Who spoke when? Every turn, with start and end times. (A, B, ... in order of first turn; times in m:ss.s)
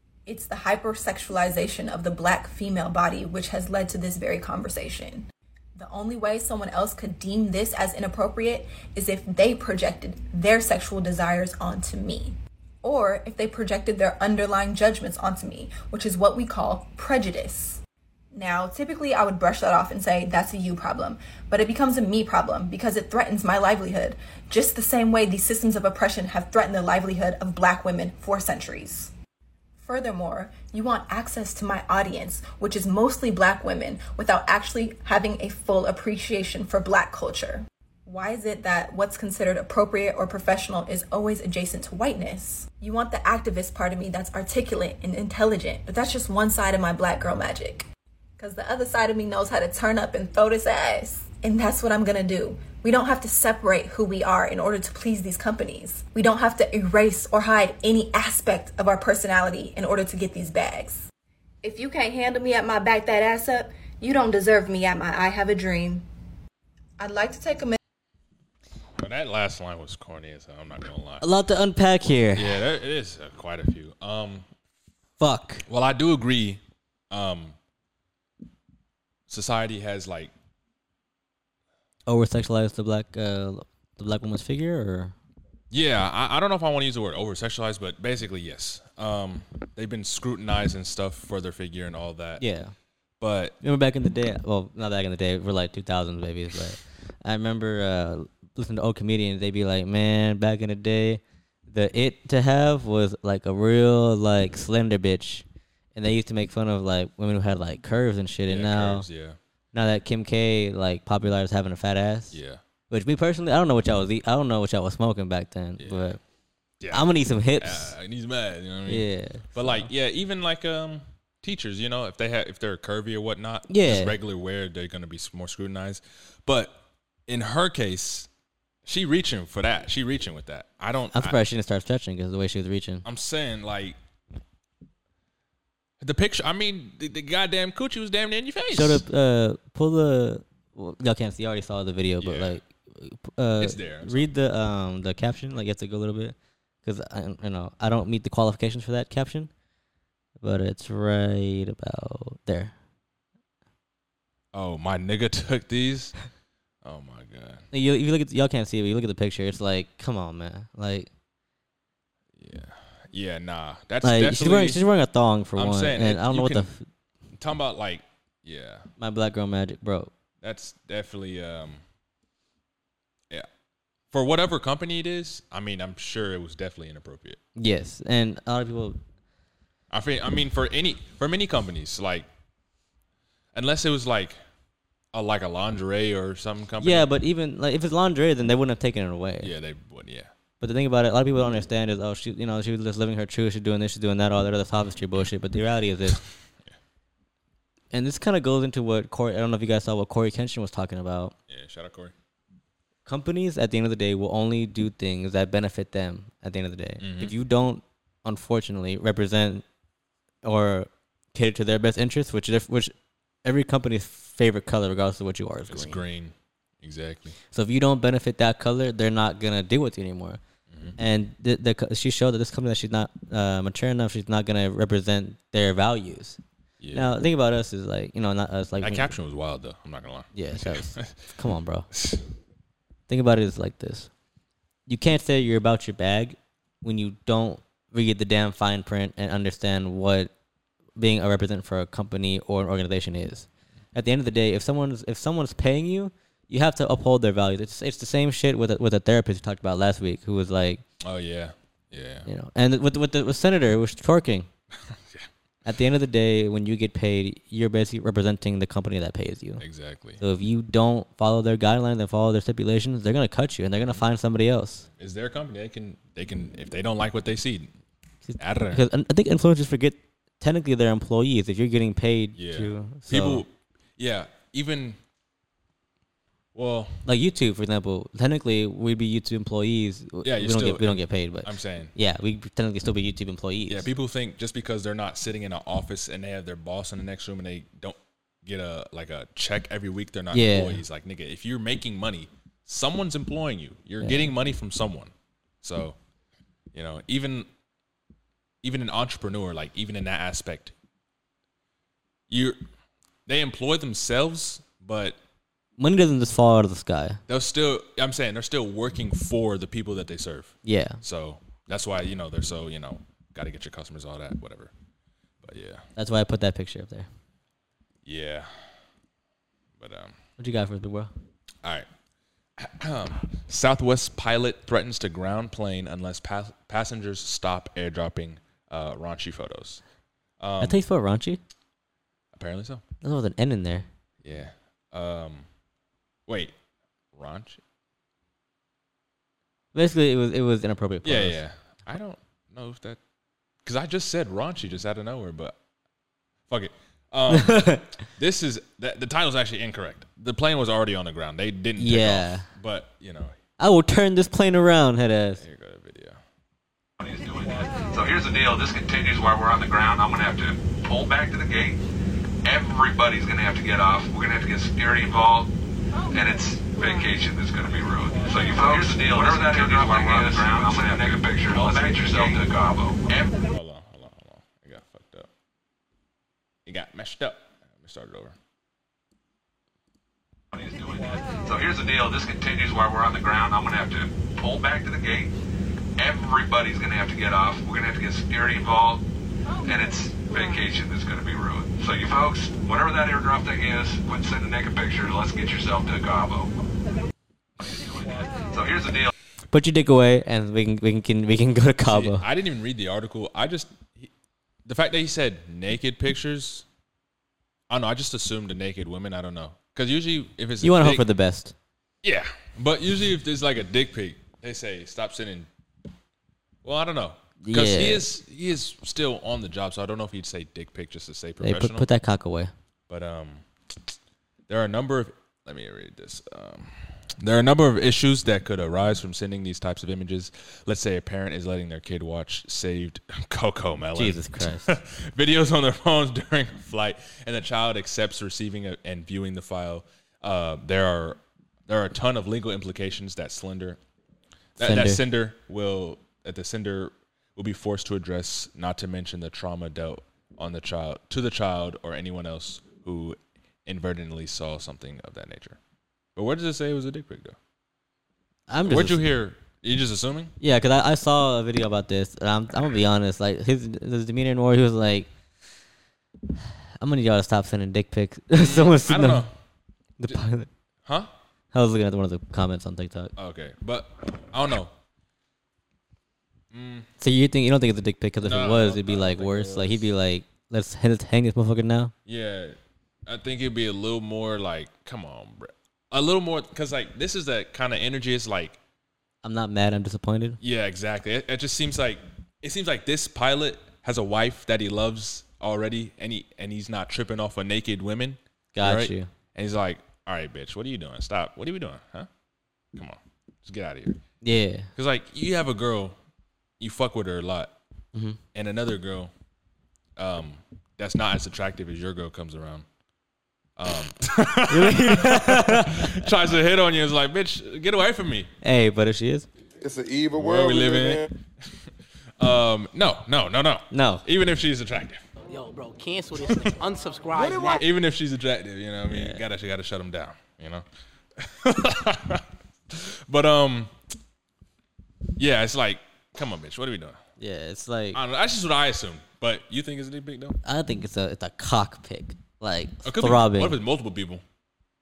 0:00.3-0:17.8 A
0:18.3-0:29.1 A
0:29.8-0:47.9 A
0:48.4-1:01.1 A
1:01.6-1:06.0 A
1:07.0-1:07.8 A
1:09.0-1:11.3 B
1:11.2-1:12.6 C
1:12.4-1:14.5 B
1:15.2-1:15.6 C
1:15.7-1:17.6 B
1:19.3-1:20.3 B
1:22.1-1:25.2 C
1:25.7-1:32.4 B
1:32.4-1:32.7 C
1:33.2-1:33.6 B
1:33.6-1:49.1 C
1:48.5-1:49.4 B
1:49.7-1:52.4 C
1:52.3-1:52.6 B
1:52.9-1:56.2 C
1:55.8-1:56.2 B
1:56.8-2:08.3 B
1:56.9-1:57.9 C
1:58.9-1:59.9 C
2:03.7-2:04.1 C
2:08.9-2:11.4 B
2:11.1-2:13.0 C
2:13.0-2:14.0 B
2:16.0-2:19.0 B
2:18.7-2:29.5 C
2:22.2-2:22.6 B
2:23.6-2:24.3 B
2:30.4-2:32.7 C
2:34.5-2:36.2 B
2:36.8-2:37.7 B
2:37.7-2:41.1 C
2:42.4-2:44.8 B
2:44.0-2:46.9 C
2:45.6-2:46.7 B
2:47.4-2:48.9 B
2:49.0-2:50.1 C
2:50.4-2:51.8 B
2:54.1-2:57.4 B
2:57.6-2:59.0 C
2:59.9-3:02.3 B
3:03.5-3:04.4 B
3:05.1-3:07.1 B
3:06.8-3:09.5 C
3:09.4-3:10.3 B
3:10.6-3:16.2 C
3:17.9-3:21.3 C
3:21.5-3:22.1 B
3:23.1-3:29.6 C
3:27.0-3:27.3 B
3:30.4-3:32.9 C
3:33.4-3:36.0 C
3:35.7-3:37.4 B
3:37.5-3:40.4 C
3:40.7-3:41.0 B
3:41.0-3:46.4 C
3:46.8-3:47.2 B
3:46.9-3:49.1 C
3:48.8-3:51.3 B
3:50.3-3:51.9 C
3:51.9-3:52.2 B
3:53.1-3:54.1 C
3:54.9-4:00.3 C
4:01.0-4:10.8 C
4:11.0-4:12.3 B
4:12.3-4:14.5 C
4:14.9-4:15.3 B
4:15.6-4:19.6 C
4:19.6-4:20.2 B
4:20.2-4:24.9 C
4:24.9-4:27.7 B
4:28.3-4:33.4 C
4:28.4-4:28.8 B
4:32.4-4:35.0 B
4:36.6-4:37.0 B
4:37.1-4:43.9 C
4:40.2-4:41.9 B
4:43.7-4:56.0 B
4:50.3-4:50.8 C
4:54.0-4:54.3 C
4:56.7-4:57.5 B
4:58.6-5:00.7 B
5:02.3-5:02.6 B
5:03.3-5:05.2 B
5:05.8-5:07.2 C
5:07.3-5:14.7 B
5:10.6-5:11.0 C
5:15.4-5:15.8 B
5:16.0-5:17.1 C
5:18.0-5:18.8 B
5:19.8-5:20.2 B
5:20.4-5:21.1 C
5:21.6-5:21.9 B
5:22.6-5:29.8 B
5:30.4-5:30.8 B
5:30.6-5:31.4 C
5:32.3-5:32.8 B
5:33.0-5:33.9 C
5:34.2-5:35.5 B
5:36.3-5:36.5 B
5:37.1-5:37.6 B
5:39.7-5:41.4 C
5:41.0-5:43.0 B
5:43.6-5:45.6 B
5:46.5-5:53.4 B
5:47.3-5:47.9 C
5:51.8-5:52.5 C
5:53.6-5:55.4 C
5:55.4-5:56.2 B
5:57.0-6:01.8 D
6:02.4-6:05.5 D
6:06.1-6:13.3 D
6:13.4-6:15.3 B
6:16.7-6:18.4 B
6:20.5-6:25.3 D
6:26.0-6:29.0 D
6:29.6-6:36.5 D
6:37.6-6:39.1 D
6:39.5-6:42.2 C
6:41.8-6:44.1 B
6:44.6-6:46.6 B
6:47.7-6:51.0 B
6:50.6-6:51.5 C
6:52.0-6:55.5 B
6:56.6-7:01.9 B
6:57.4-6:58.0 C
7:01.4-7:02.5 C
7:02.9-7:03.4 B
7:04.5-7:23.8 B
7:14.0-7:14.7 C
7:24.6-7:35.6 B
7:24.6-7:25.0 C
7:36.2-7:37.4 B
7:38.5-7:39.0 C
7:38.6-7:40.4 B
7:40.4-7:45.1 C
7:46.8-7:49.2 C
7:48.3-7:49.3 B
7:50.0-7:50.5 C
7:51.5-7:53.1 C
7:53.2-7:54.7 B
7:56.5-7:56.9 B
7:57.0-8:01.9 C
7:58.2-7:59.9 B
8:02.1-8:08.6 B
8:09.2-8:10.4 C
8:10.4-8:22.1 B
8:18.6-8:19.1 C
8:22.8-8:24.0 B
8:24.2-8:24.7 C
8:24.8-8:26.0 B
8:26.6-8:27.5 B
8:27.9-8:28.2 C
8:28.3-8:29.1 B
8:30.0-8:32.7 B
8:33.6-8:38.3 B
8:34.5-8:36.1 C
8:38.4-8:39.3 C
8:39.6-8:41.1 E
8:40.1-8:41.1 B
8:42.2-8:45.0 B
8:43.7-8:44.0 C
8:45.2-8:47.6 F
8:47.1-8:47.6 E
8:47.5-8:50.6 B
8:48.9-8:49.2 C
8:51.2-8:53.7 B
8:55.2-8:57.0 B
8:57.2-8:58.0 C
8:57.9-9:00.4 B
9:00.4-9:03.6 C
9:02.8-9:04.2 B